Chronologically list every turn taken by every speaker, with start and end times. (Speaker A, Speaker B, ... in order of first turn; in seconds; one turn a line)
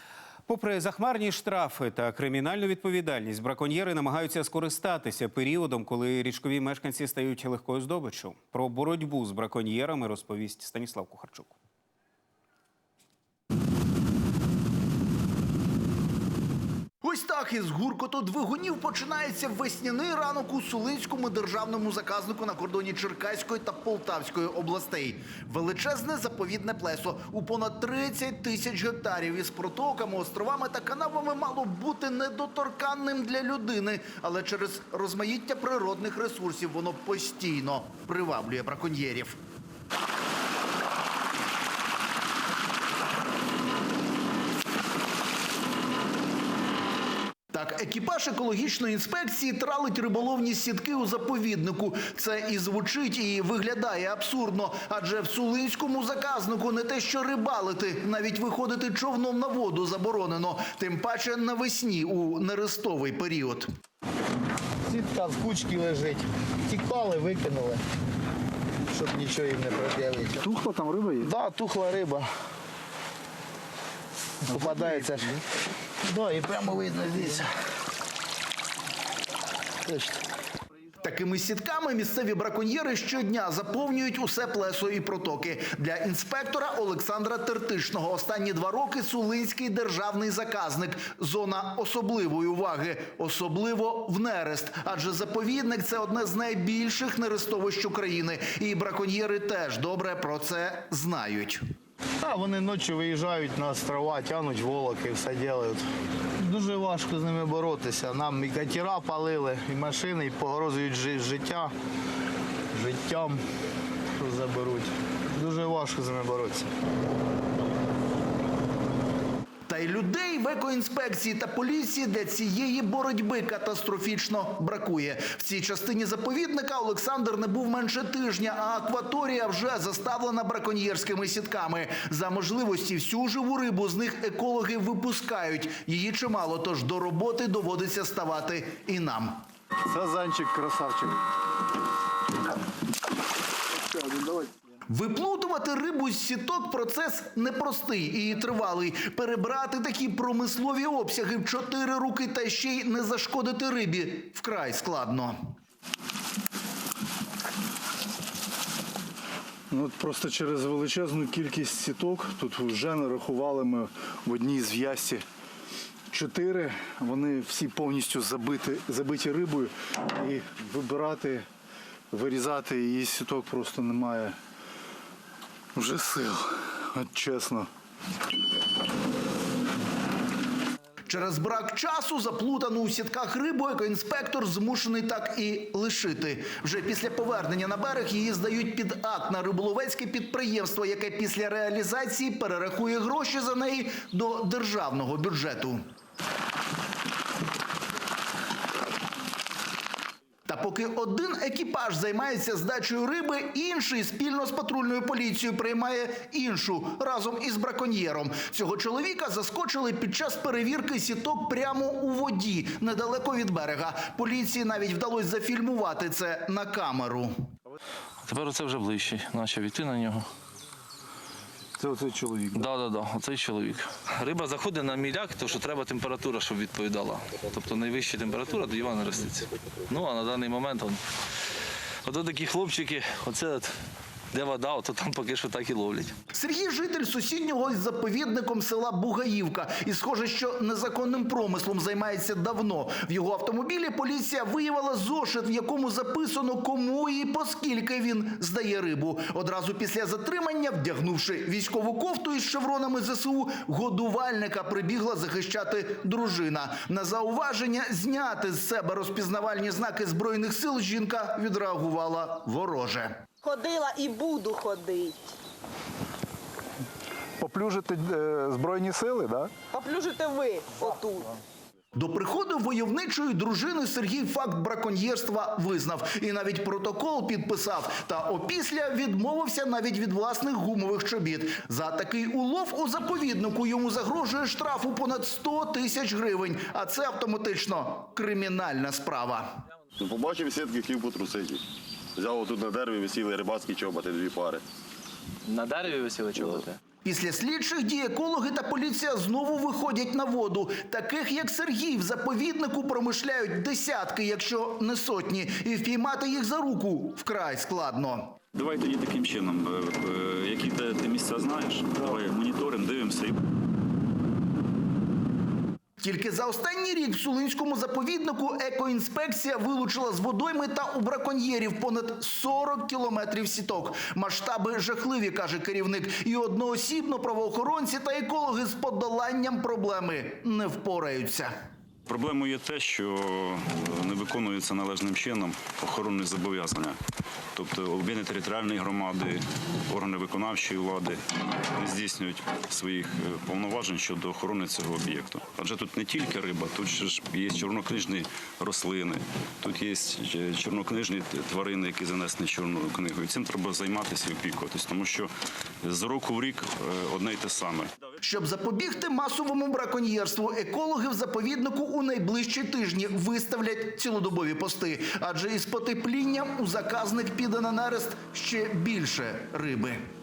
Speaker A: 0.5-11.5
Speaker B: 17.0-39.4
Speaker B: 47.5-63.7
Speaker C: 64.9-67.8
Speaker C: 68.9-70.4
Speaker D: 70.4-71.3
Speaker C: 71.2-72.3
Speaker D: 74.5-75.3
Speaker C: 74.5-75.3
Speaker C: 76.1-77.5
Speaker C: 79.9-80.2
Speaker B: 81.0-101.6
Speaker C: 102.2-105.8
Speaker C: 106.4-111.7
Speaker C: 112.7-113.4
Speaker C: 114.2-116.7
Speaker B: 119.7-139.4
Speaker D: 139.9-141.2
Speaker D: 143.9-144.5
Speaker B: 144.9-155.4
Speaker D: 159.7-165.2
Speaker D: 166.1-171.5
Speaker D: 172.1-174.4
Speaker D: 175.8-177.7
Speaker B: 181.1-195.8
Speaker B: 200.5-217.3
Speaker E: 218.2-220.3
Speaker D: 221.8-222.7
Speaker E: 222.5-231.0
Speaker E: 232.1-233.7
Speaker E: 234.3-236.1
Speaker B: 236.3-263.2
Speaker F: 263.4-265.4
Speaker D: 267.4-269.5
Speaker F: 269.7-271.4
Speaker B: 271.9-289.5
Speaker G: 290.0-291.6
Speaker G: 292.2-294.6
Speaker E: 295.5-296.8
Speaker B: 297.1-308.4
Speaker H: 308.5-313.4
Speaker B: 316.0-331.5
Speaker H: 332.1-337.0
Speaker H: 337.6-355.3
Speaker H: 355.8-357.9
Speaker B: 358.2-370.0